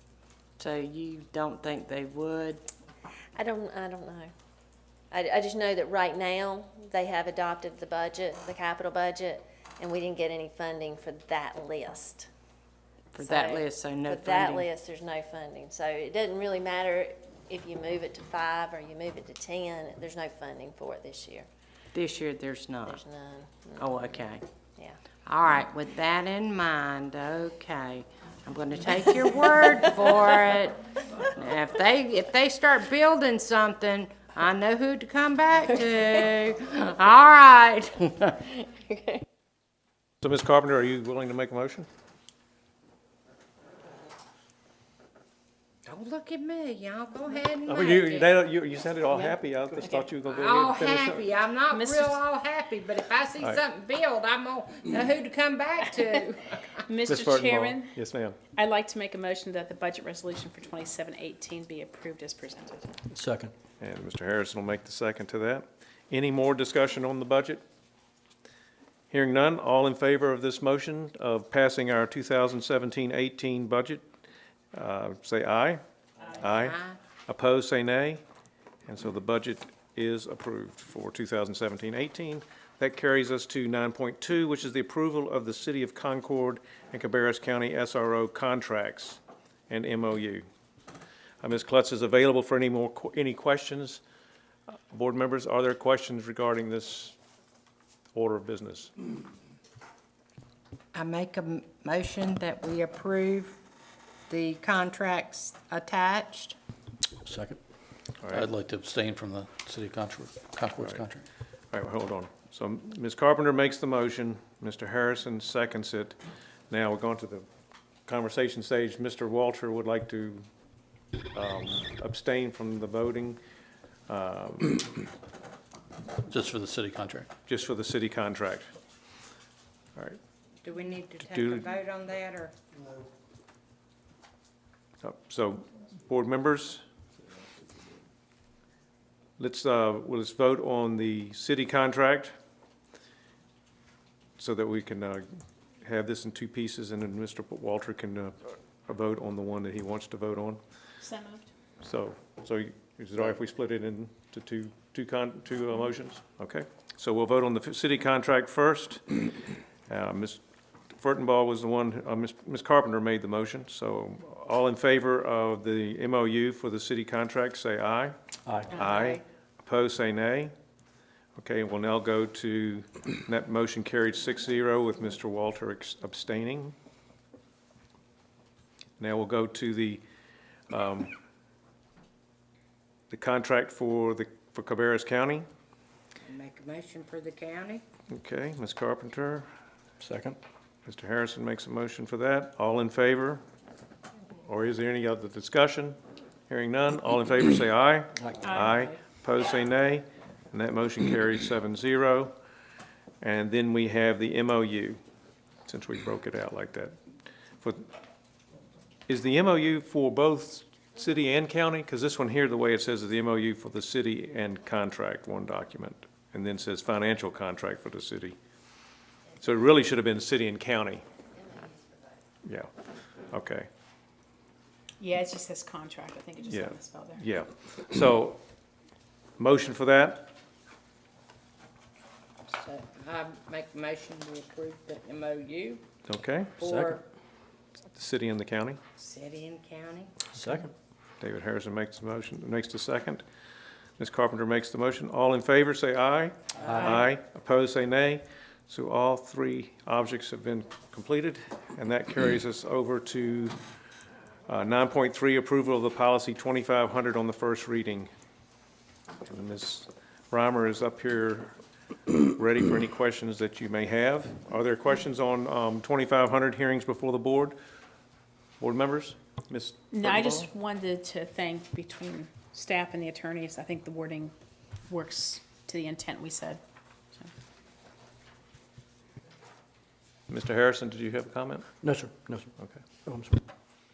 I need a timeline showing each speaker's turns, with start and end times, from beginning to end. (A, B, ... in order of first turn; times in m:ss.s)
0:00.6-0:02.6 A
0:03.4-0:04.3 B
0:05.1-0:12.3 B
0:13.2-0:14.7 A
0:13.2-0:21.5 B
0:21.9-0:23.0 A
0:22.9-0:24.0 B
0:23.8-0:24.4 A
0:25.2-0:38.3 A
0:38.5-0:39.2 B
0:40.2-0:41.9 C
0:45.9-0:48.3 A
0:47.7-0:51.2 C
0:49.9-0:56.8 A
0:51.7-0:52.2 D
0:56.8-0:58.0 D
0:57.1-0:58.4 C
0:58.6-1:03.0 D
1:03.1-1:03.5 E
1:03.8-1:07.6 C
1:09.1-1:14.1 C
1:14.7-1:15.8 C
1:16.4-1:18.2 C
1:16.5-1:17.0 A
1:18.9-1:30.4 C
1:31.4-1:34.0 C
1:34.9-1:37.2 C
1:38.1-1:38.9 C
1:40.9-1:43.6 A
1:44.3-1:46.6 A
1:47.2-1:47.6 E
1:48.2-1:48.5 C
1:48.3-1:51.2 E
1:51.7-1:56.2 C
1:56.7-1:57.5 C
1:58.1-2:00.5 C
2:01.3-2:03.4 C
2:04.1-2:04.8 C
2:06.3-2:07.3 E
2:07.5-2:08.7 C
2:10.6-2:12.5 A
2:11.3-2:11.7 C
2:15.0-2:16.8 C
2:19.4-2:22.3 C
2:24.4-2:25.3 C
2:25.8-2:30.6 C
2:31.0-2:31.5 D
2:31.8-2:39.2 C
2:39.9-2:48.2 C
2:48.5-2:48.7 E
2:48.7-2:50.5 C
2:48.8-2:49.2 D
2:51.4-2:56.7 C
2:59.0-3:00.0 C
3:00.7-3:01.2 C
3:03.1-3:05.5 C
3:06.2-3:07.8 A
3:08.1-3:09.5 C
3:10.0-3:10.4 E
3:10.9-3:13.4 C
3:14.4-3:22.3 C
3:18.4-3:18.7 D
3:23.2-3:25.0 C
3:25.6-3:26.9 C
3:27.6-3:27.9 C
3:29.1-3:38.4 C
3:39.4-3:41.0 C
3:42.4-3:42.7 C
3:43.3-3:43.7 C
3:45.0-3:47.2 D
3:46.5-3:48.4 C
3:49.4-3:50.3 C
3:52.5-3:55.9 A
3:56.1-3:56.7 C
3:56.6-3:57.0 A
3:56.6-3:56.9 E
3:58.0-3:58.8 C
3:59.0-4:00.2 A
4:00.3-4:00.7 E
4:01.2-4:03.2 C
4:04.0-4:13.6 C
4:06.6-4:07.0 A
4:14.5-4:18.1 C
4:19.2-4:21.6 C
4:22.1-4:27.6 C
4:28.6-4:30.5 C
4:29.9-4:34.3 D
4:34.9-4:36.6 D
4:40.3-4:41.7 C
4:41.8-4:42.5 E
4:43.1-4:43.4 E